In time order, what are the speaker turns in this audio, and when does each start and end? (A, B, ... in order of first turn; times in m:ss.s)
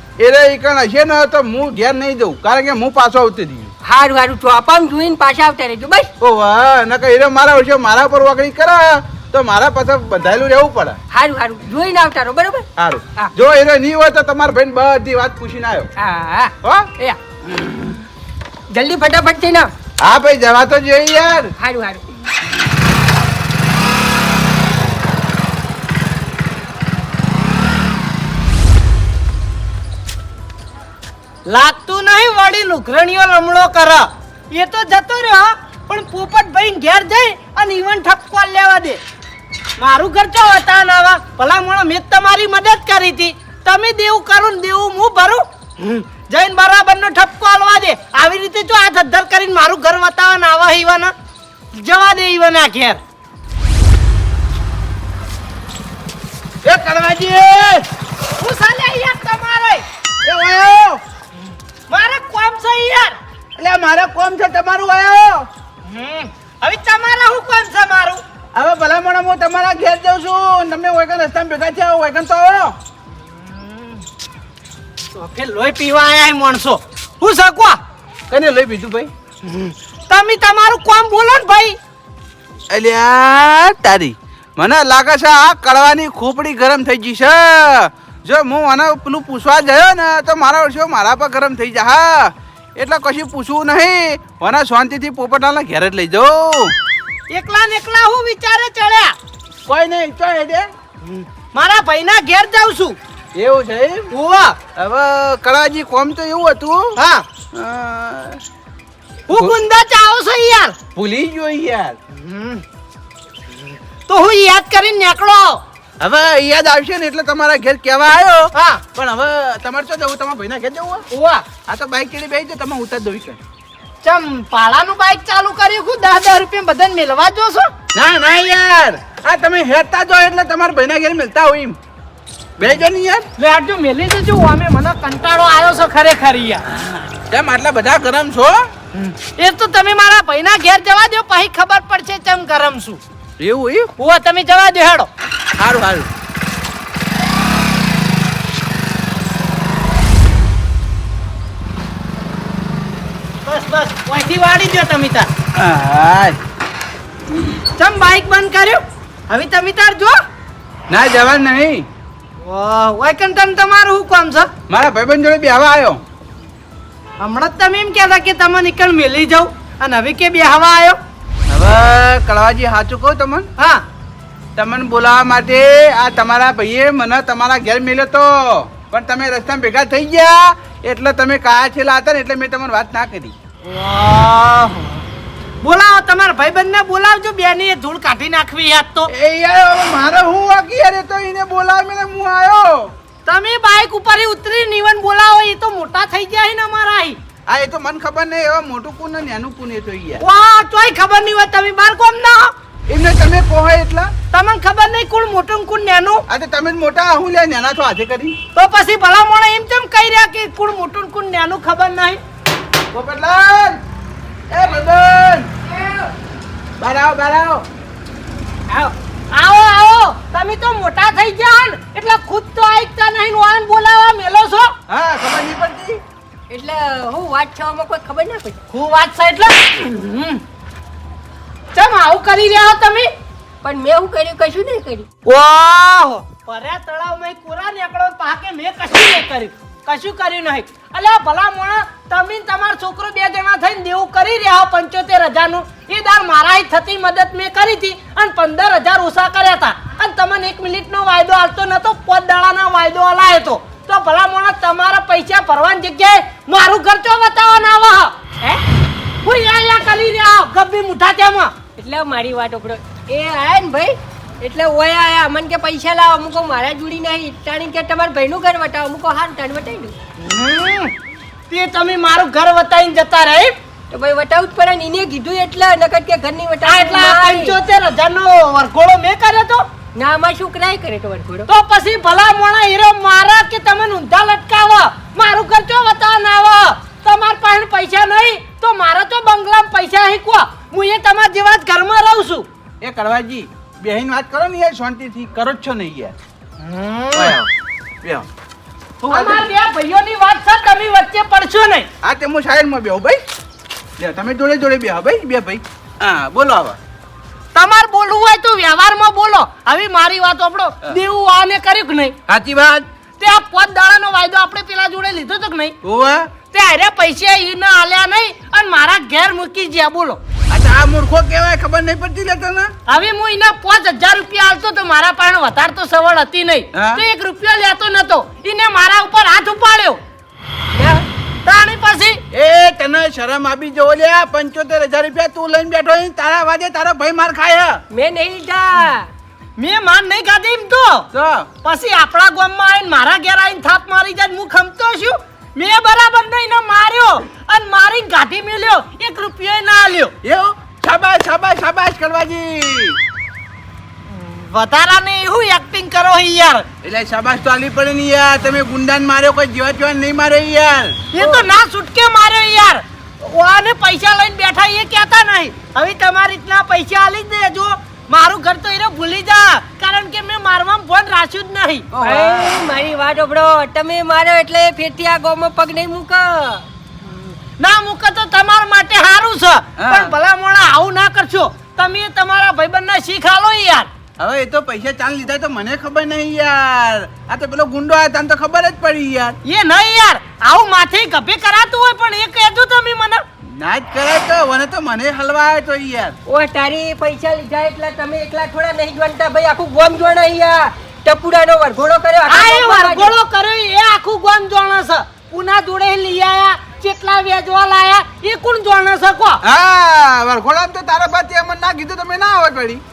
0:00.2-0:03.7 A
0:03.8-0:06.1 B
0:06.2-0:11.0 A
0:11.1-0:13.3 B
0:12.8-0:15.9 A
0:16.0-0:17.2 B
0:16.6-0:16.9 A
0:17.5-0:18.0 A
0:18.7-0:19.7 B
0:20.0-0:21.5 A
0:21.6-0:22.0 B
0:31.5-0:39.0 C
0:39.8-0:51.1 C
0:51.7-0:53.0 C
0:56.6-0:57.8 A
0:58.4-0:59.8 C
1:00.2-1:01.0 A
1:01.9-1:03.2 C
1:03.6-1:05.5 A
1:05.9-1:08.2 C
1:08.6-1:12.8 A
1:13.4-1:14.0 C
1:15.1-1:17.8 C
1:18.3-1:19.1 A
1:20.1-1:21.8 C
1:22.7-1:36.8 A
1:37.3-1:39.2 C
1:39.7-1:40.7 A
1:41.2-1:43.0 C
1:43.4-1:44.1 A
1:44.1-1:44.6 C
1:44.8-1:47.0 A
1:47.0-1:47.3 C
1:47.5-1:48.4 A
1:49.3-1:50.8 C
1:51.0-1:52.0 A
1:52.1-1:52.6 C
1:54.1-1:55.6 C
1:56.0-2:01.1 A
1:58.5-1:58.8 C
2:01.1-2:01.4 C
2:01.7-2:03.4 A
2:04.0-2:07.7 C
2:07.9-2:11.8 A
2:12.6-2:13.3 A
2:13.4-2:16.6 C
2:16.8-2:18.7 A
2:19.0-2:23.0 C
2:23.4-2:23.9 A
2:24.0-2:25.1 C
2:25.6-2:26.1 A
2:33.4-2:35.3 C
2:35.6-2:36.4 A
2:37.8-2:40.2 C
2:40.9-2:41.9 A
2:42.4-2:44.5 C
2:44.7-2:46.0 A
2:47.2-2:51.0 C
2:51.5-2:53.5 A
2:53.6-2:53.8 C
2:54.6-3:03.4 A
3:03.6-3:05.0 C
3:05.6-3:09.1 C
3:09.1-3:12.9 A
3:13.3-3:17.2 C
3:17.5-3:20.2 A
3:20.2-3:22.5 C
3:22.9-3:24.1 A
3:24.3-3:26.2 C
3:26.3-3:28.4 A
3:28.5-3:32.2 C
3:32.9-3:33.8 A
3:34.5-3:35.5 A
3:35.7-3:36.1 B
3:36.8-3:37.6 A
3:38.7-3:44.7 C
3:44.9-3:46.0 A
3:46.5-3:48.6 B
3:48.7-3:50.4 C
3:51.8-3:53.1 C
3:53.6-3:55.1 B
3:55.3-4:18.1 C
4:19.2-4:21.5 C
4:21.8-4:29.9 B
4:30.2-4:30.9 C
4:31.5-4:33.6 C
4:33.9-4:37.6 B
4:36.6-4:39.6 C
4:40.0-4:41.5 B
4:41.5-4:52.5 C
4:52.8-4:56.2 A
4:56.6-4:57.4 C
4:57.1-4:57.5 A
4:59.0-4:59.5 A
4:59.1-5:01.9 C
5:02.0-5:03.2 A
5:04.0-5:06.8 A
5:07.5-5:12.2 C
5:12.3-5:12.9 A
5:13.2-5:15.8 C
5:15.8-5:16.3 A
5:16.5-5:20.2 C
5:20.5-5:22.7 A
5:22.9-5:30.0 C
5:26.7-5:27.0 A
5:30.7-5:31.0 B
5:31.4-5:32.2 C
5:32.3-5:37.8 A
5:37.9-5:39.1 B
5:39.6-5:41.1 C
5:41.1-5:41.5 A
5:41.6-5:50.1 C
5:50.2-5:53.0 A
5:54.1-5:56.7 C
5:56.8-6:01.0 A
6:01.1-6:11.9 C
6:01.2-6:01.5 B
6:11.9-6:12.6 A
6:12.0-6:16.6 B
6:17.1-6:23.9 C
6:19.8-6:20.1 A
6:24.2-6:29.4 A
6:29.4-6:33.2 C
6:33.6-6:36.2 A
6:36.3-6:43.2 B
6:42.3-6:49.4 C
6:49.4-6:52.8 A